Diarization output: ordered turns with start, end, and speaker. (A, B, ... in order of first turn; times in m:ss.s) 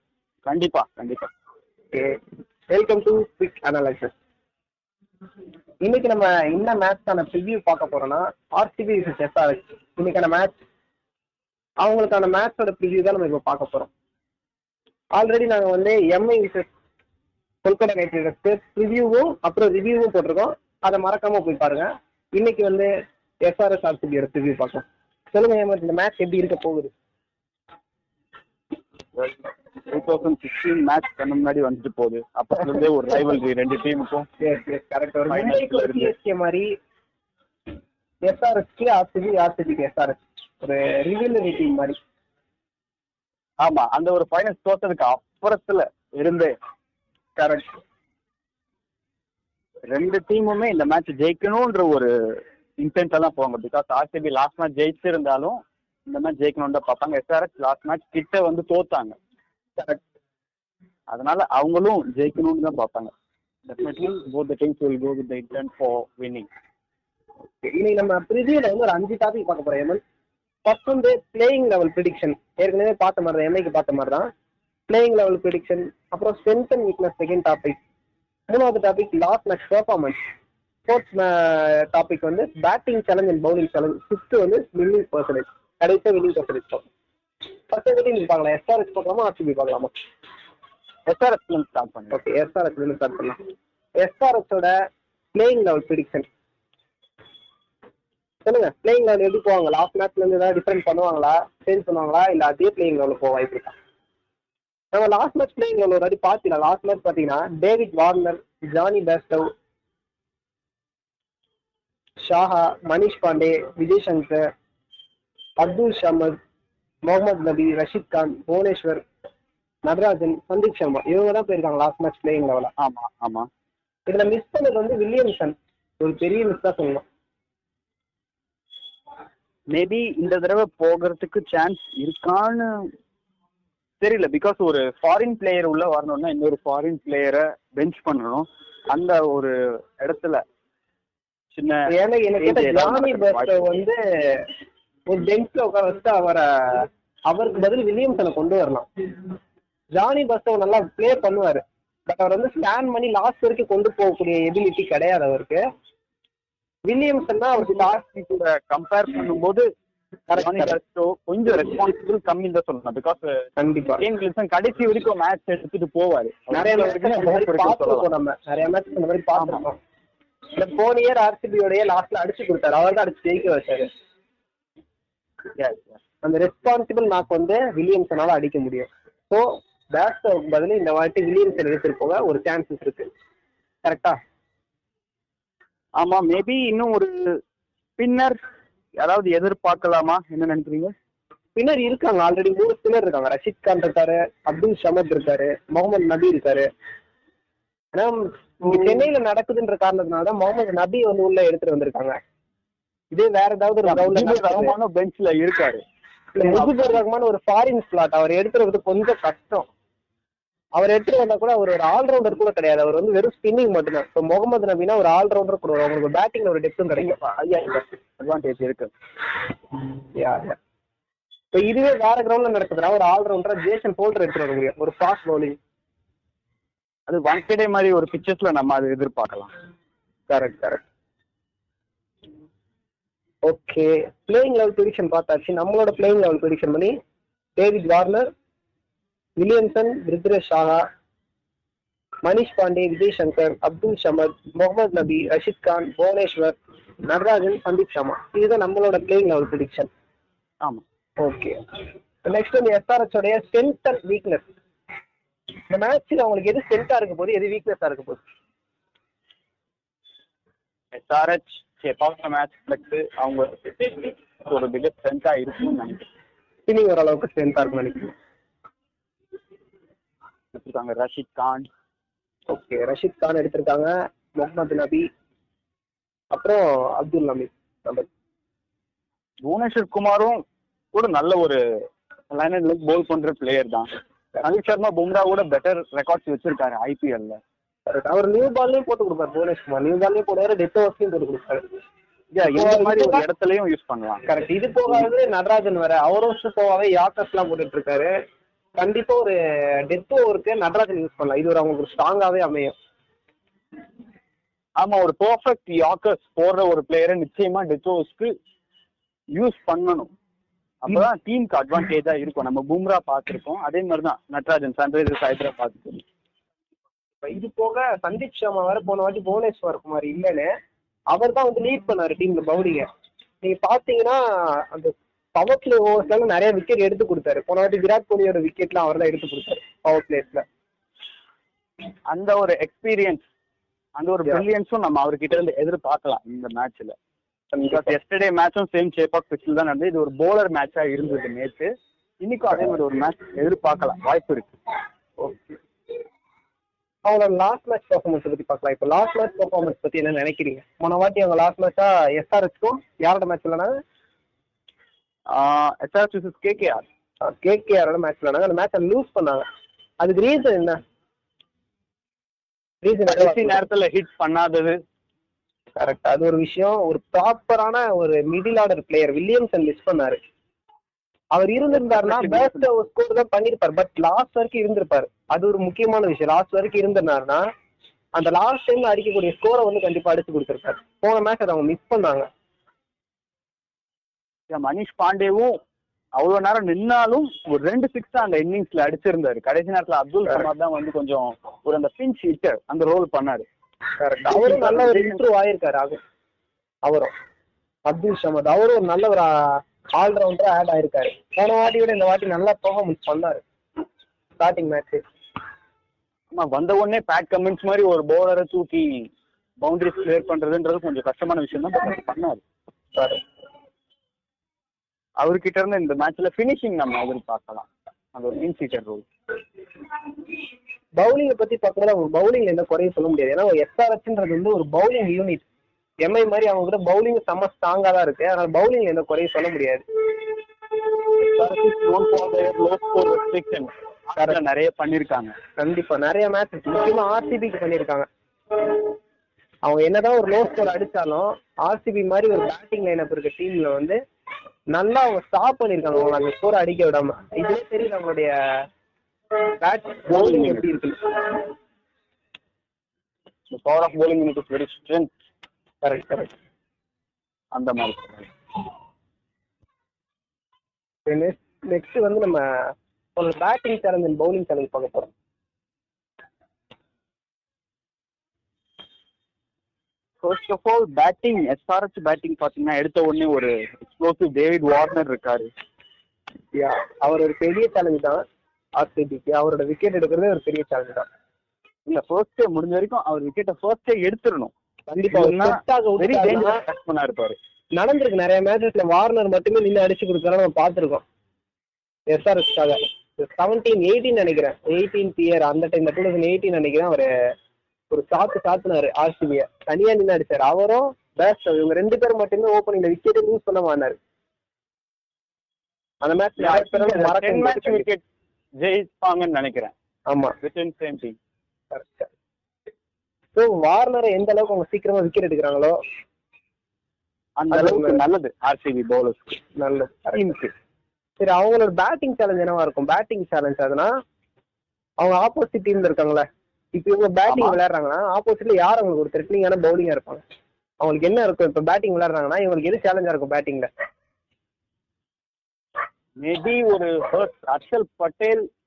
0:00.4-0:01.3 A
0:01.9-0:02.2 B
0:02.7-0:04.1 B
0:05.8-0:10.6 B
0:11.8-0:13.9 B
0:15.1-0:16.7 B
0:17.6-0:22.9 B
0:23.4-0:26.9 B
0:29.2-0:34.3 A
0:34.4-0:36.7 B
0:35.3-0:36.1 A
0:38.2-0:42.0 B
0:43.6-0:46.6 A
0:47.4-0:47.8 B
0:49.9-0:59.2 A
1:01.1-1:03.1 A
1:03.6-1:06.5 A
1:07.6-1:10.0 B
1:10.6-1:14.3 B
1:14.9-1:17.8 B
1:18.5-1:20.2 B
1:20.9-1:26.8 B
1:27.7-1:29.9 B
1:31.1-1:32.1 A
1:32.1-1:33.4 B
1:34.0-1:34.7 B
1:35.3-1:36.3 B
1:38.4-1:43.7 B
1:44.9-1:49.5 B
1:52.2-1:54.5 B
1:55.6-1:56.4 B
1:57.1-1:59.0 B
1:59.8-2:02.7 B
2:02.8-2:03.5 A
2:04.1-2:07.0 B
2:09.7-2:12.9 A
2:14.0-2:20.4 A
2:21.5-2:21.9 A
2:21.9-2:24.5 B
2:22.4-2:23.7 A
2:25.1-2:29.3 B
2:29.9-2:35.6 B
2:36.8-2:38.0 B
2:37.6-2:39.6 A
2:40.3-2:40.7 B
2:40.3-2:48.1 A
2:43.6-2:44.0 B
2:46.5-2:49.8 B
2:49.4-2:49.6 A
2:50.6-2:53.9 B
2:55.6-2:56.0 A
2:56.2-3:03.1 B
3:03.8-3:04.2 B
3:06.0-3:07.4 A
3:08.0-3:08.4 A
3:09.0-3:10.9 A
3:11.6-3:16.7 B
3:17.9-3:22.2 B
3:18.7-3:19.0 A
3:23.1-3:24.8 B
3:23.8-3:25.8 A
3:26.3-3:29.7 B
3:26.4-3:27.0 A
3:30.8-3:37.2 B
3:37.0-3:38.9 A
3:39.9-3:40.6 B
3:41.5-3:45.6 B
3:47.1-3:49.5 A
3:50.3-3:50.8 B
3:53.4-3:57.0 B
3:57.6-3:58.3 B
3:59.4-4:00.8 B
4:02.2-4:09.9 B
4:11.2-4:11.6 B
4:12.2-4:14.5 B
4:15.7-4:18.2 B
4:20.9-4:26.1 A
4:26.7-4:28.1 B
4:30.5-4:31.7 A
4:32.5-4:35.1 B
4:36.3-4:38.1 B
4:39.4-4:40.4 A
4:40.9-4:41.6 A
4:42.3-4:43.9 A
4:44.4-4:47.4 A
4:47.9-4:51.6 B
4:52.3-4:54.2 A
4:52.5-4:53.2 B
4:54.3-4:58.1 B
4:58.8-4:59.3 B
4:59.9-5:02.8 B
5:04.8-5:08.3 A
5:09.3-5:10.1 A
5:10.8-5:16.0 A
5:17.2-5:20.5 B
5:21.1-5:22.9 B
5:23.4-5:30.4 B
5:32.1-5:33.3 A
5:34.0-5:36.9 A
5:37.5-5:37.9 B
5:37.7-5:44.5 A
5:45.2-5:45.6 B
5:47.0-5:53.8 B
5:55.3-5:56.9 A
5:57.2-5:59.4 B
6:00.0-6:00.8 B
6:02.8-6:03.6 B
6:03.1-6:04.8 A
6:05.8-6:10.2 B
6:11.3-6:17.5 B
6:11.7-6:12.7 A
6:18.1-6:22.2 B
6:24.5-6:25.5 A
6:26.2-6:33.4 A
6:34.0-6:36.0 B
6:34.3-6:35.2 A
6:36.8-6:37.1 B
6:37.9-6:43.4 B
6:44.4-6:45.0 B
6:46.3-6:49.1 A
6:49.6-6:52.4 A
6:53.0-6:53.2 B
6:55.2-6:59.1 A
7:01.0-7:05.4 B
7:06.0-7:09.8 B
7:11.2-7:15.3 A
7:15.6-7:18.1 B
7:19.6-7:24.0 B
7:24.7-7:28.3 B
7:29.5-7:31.4 B
7:30.1-7:30.6 A
7:33.5-7:35.1 A
7:35.8-7:36.3 B
7:37.5-7:38.3 A
7:41.1-7:45.1 B
7:50.2-7:55.5 A
7:56.5-7:58.2 B
7:58.8-8:01.1 B
8:01.9-8:04.5 A
8:04.9-8:06.6 B
8:05.1-8:07.4 A
8:07.8-8:11.0 B
8:12.1-8:17.1 B
8:17.9-8:24.0 B
8:26.0-8:27.8 B
8:26.4-8:28.0 A
8:28.6-8:29.7 A
8:30.1-8:30.3 B
8:30.4-8:31.2 A
8:31.7-8:32.1 B
8:33.4-8:35.8 B
8:37.4-8:39.4 A
8:37.5-8:38.0 B
8:39.6-8:40.4 B
8:40.1-8:40.5 A
8:41.2-8:43.9 B
8:45.0-8:50.2 B
8:47.3-8:47.6 A
8:50.8-8:53.7 B
8:56.2-8:58.5 A